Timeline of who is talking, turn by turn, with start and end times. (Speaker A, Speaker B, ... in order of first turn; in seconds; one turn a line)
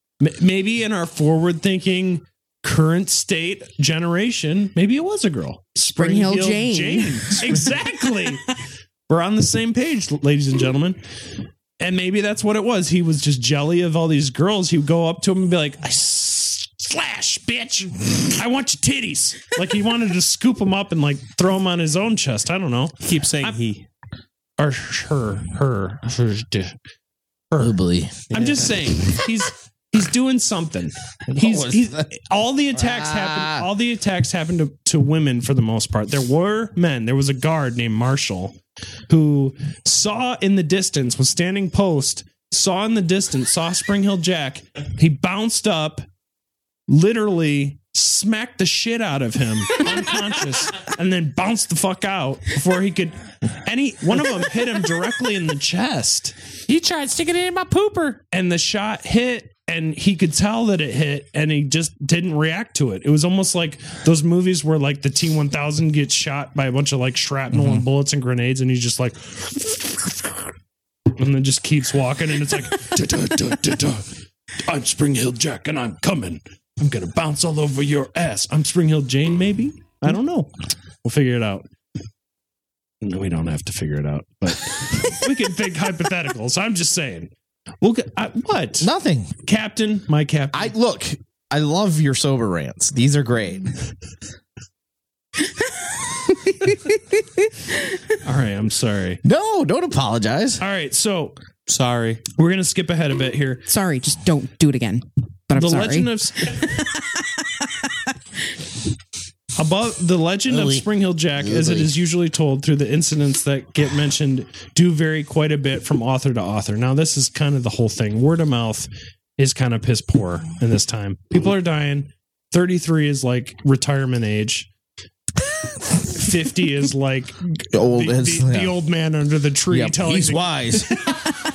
Speaker A: 0.2-8.5
Speaker B: 6.0-7.6
Speaker A: 9.1-11.0
Speaker A: 11.8-23.6
Speaker C: 23.0-23.8
Speaker A: 24.6-26.7
Speaker A: 27.5-27.8
Speaker D: 27.6-28.3
Speaker A: 28.3-38.5
Speaker C: 28.3-28.6
Speaker D: 31.3-32.1
Speaker D: 32.7-33.7
Speaker A: 39.1-46.0
Speaker A: 46.9-56.3
Speaker C: 56.7-58.2
Speaker A: 58.3-70.4
Speaker D: 67.5-67.8
Speaker A: 71.2-74.1
Speaker A: 74.7-81.7
Speaker A: 83.0-88.9
Speaker D: 88.8-89.3
Speaker A: 89.4-90.7
Speaker D: 90.5-93.7
Speaker A: 98.2-99.2
Speaker D: 99.2-100.6
Speaker A: 100.6-101.3
Speaker C: 101.7-102.2
Speaker A: 102.3-103.7
Speaker B: 103.7-106.8
Speaker A: 105.5-106.7
Speaker A: 109.5-124.7
Speaker D: 111.4-111.9
Speaker A: 126.0-131.3
Speaker D: 127.7-128.8
Speaker D: 129.7-131.3